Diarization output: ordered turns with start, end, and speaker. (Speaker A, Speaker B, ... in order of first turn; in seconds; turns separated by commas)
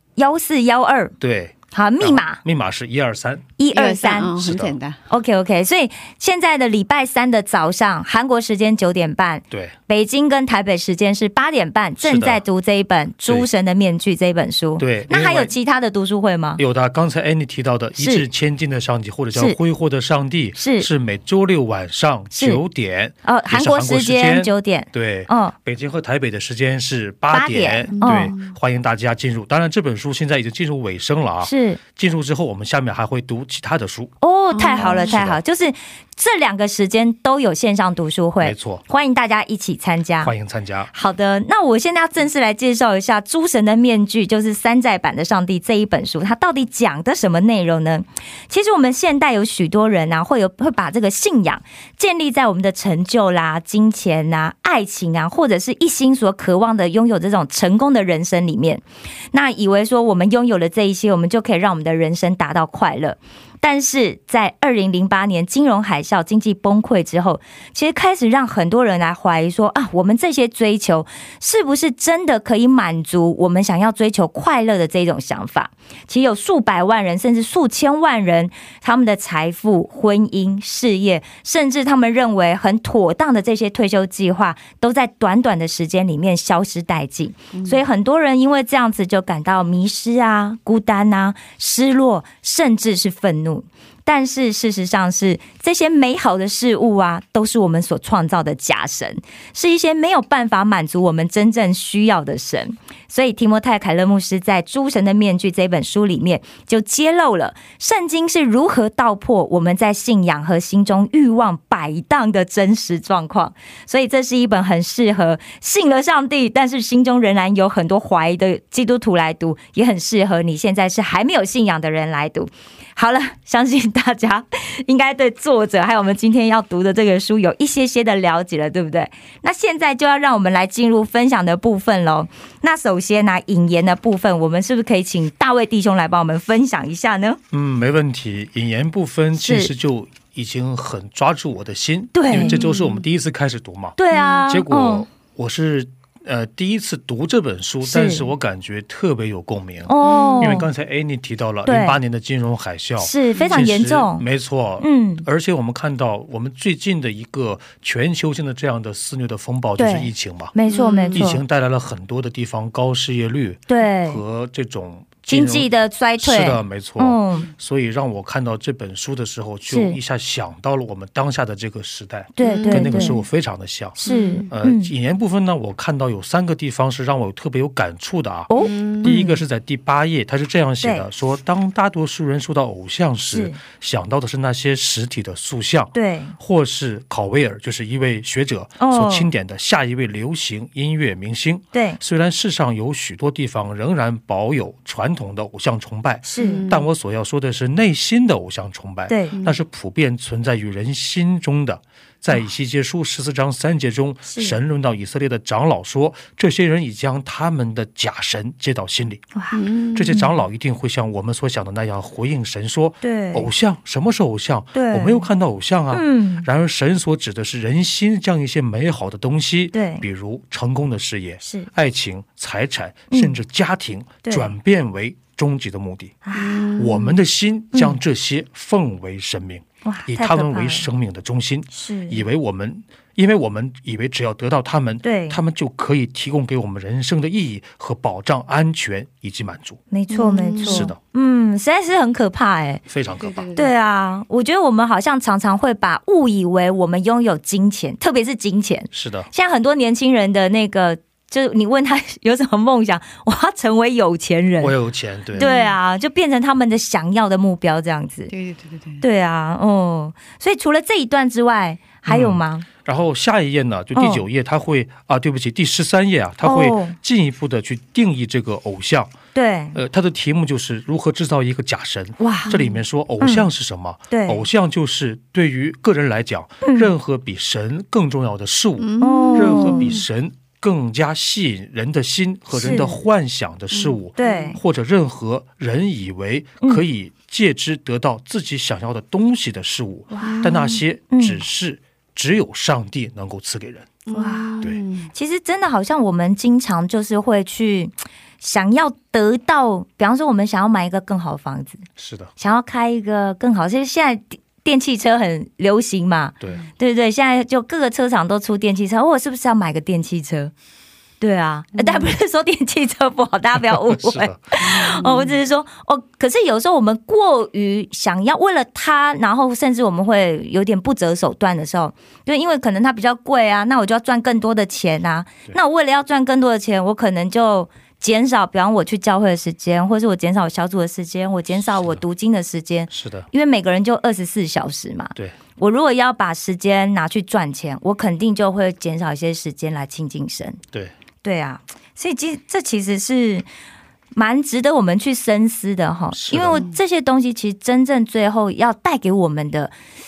Speaker A: 0.2-1.1, Speaker B: 1.2-3.5, Speaker A: 1.7-2.4, Speaker A: 3.6-4.3, Speaker C: 3.7-5.0, Speaker B: 4.4-4.8, Speaker A: 5.1-16.6, Speaker B: 12.0-12.4, Speaker B: 14.8-15.5, Speaker B: 16.6-34.1, Speaker A: 18.0-18.2, Speaker A: 20.6-20.9, Speaker A: 22.3-22.6, Speaker A: 23.2-25.5, Speaker A: 27.3-28.3, Speaker C: 27.9-28.5, Speaker A: 31.4-31.8, Speaker A: 34.2-40.3, Speaker C: 34.5-35.2, Speaker B: 34.7-35.4, Speaker B: 38.4-38.8, Speaker B: 40.2-40.9, Speaker A: 40.9-137.4, Speaker C: 87.5-87.8, Speaker B: 137.5-160.5, Speaker A: 139.4-139.7, Speaker A: 142.1-142.6, Speaker C: 142.3-143.0, Speaker A: 144.0-145.1, Speaker C: 144.1-144.4, Speaker A: 147.8-148.3, Speaker A: 149.9-150.7, Speaker C: 150.0-150.6, Speaker A: 151.6-152.0, Speaker A: 153.0-154.2, Speaker A: 154.8-155.2, Speaker A: 159.8-161.4, Speaker C: 160.7-161.3, Speaker B: 161.1-165.7, Speaker A: 163.7-164.2, Speaker A: 165.3-167.5, Speaker B: 166.2-174.0, Speaker A: 169.7-170.0, Speaker A: 172.4-173.2, Speaker C: 172.4-173.2, Speaker A: 173.9-174.9, Speaker C: 174.1-174.5, Speaker B: 174.5-178.5, Speaker A: 178.5-179.4, Speaker C: 178.6-179.2, Speaker B: 179.0-209.2, Speaker A: 183.3-183.6, Speaker A: 185.9-186.3, Speaker A: 188.8-189.3, Speaker A: 191.7-192.0, Speaker A: 196.2-196.7, Speaker C: 196.4-196.9, Speaker A: 199.1-199.3, Speaker A: 204.2-204.6, Speaker A: 209.3-209.6, Speaker C: 209.5-210.3, Speaker B: 209.9-226.2, Speaker A: 213.0-213.5, Speaker A: 214.7-215.3, Speaker A: 215.9-216.5, Speaker A: 219.7-220.0, Speaker A: 223.1-223.4, Speaker A: 224.2-224.5, Speaker A: 226.2-226.7, Speaker C: 226.3-227.2, Speaker B: 226.8-239.8, Speaker A: 227.7-228.0, Speaker A: 229.8-230.9, Speaker A: 231.7-232.2, Speaker A: 235.0-235.4, Speaker A: 239.9-242.8, Speaker C: 240.1-240.9, Speaker B: 240.6-241.0, Speaker B: 242.9-243.5, Speaker C: 243.2-243.7, Speaker A: 243.6-254.7, Speaker B: 248.9-249.3, Speaker B: 254.6-255.5, Speaker A: 255.3-258.3, Speaker C: 255.4-255.8, Speaker C: 258.3-259.0, Speaker A: 259.0-262.7, Speaker B: 262.1-269.1, Speaker A: 263.9-264.2, Speaker A: 266.4-266.9, Speaker A: 269.3-269.8, Speaker B: 269.7-294.0, Speaker A: 272.2-272.5, Speaker C: 272.5-272.8, Speaker A: 273.2-273.5, Speaker A: 274.1-274.4, Speaker A: 276.6-276.9, Speaker C: 278.8-280.0, Speaker A: 279.0-279.9, Speaker A: 282.5-283.0, Speaker C: 283.7-284.5, Speaker A: 284.2-284.6, Speaker A: 290.1-290.5, Speaker C: 290.2-290.8, Speaker A: 291.1-291.4, Speaker C: 294.1-295.1, Speaker A: 294.1-301.8, Speaker B: 302.0-302.3, Speaker A: 302.4-310.5, Speaker A: 311.2-340.6, Speaker C: 311.7-312.1, Speaker B: 313.6-314.5, Speaker C: 314.6-315.4, Speaker B: 331.5-332.0, Speaker B: 332.9-333.3, Speaker A: 341.2-343.4, Speaker A: 344.1-349.7, Speaker B: 346.1-346.6, Speaker C: 346.5-346.8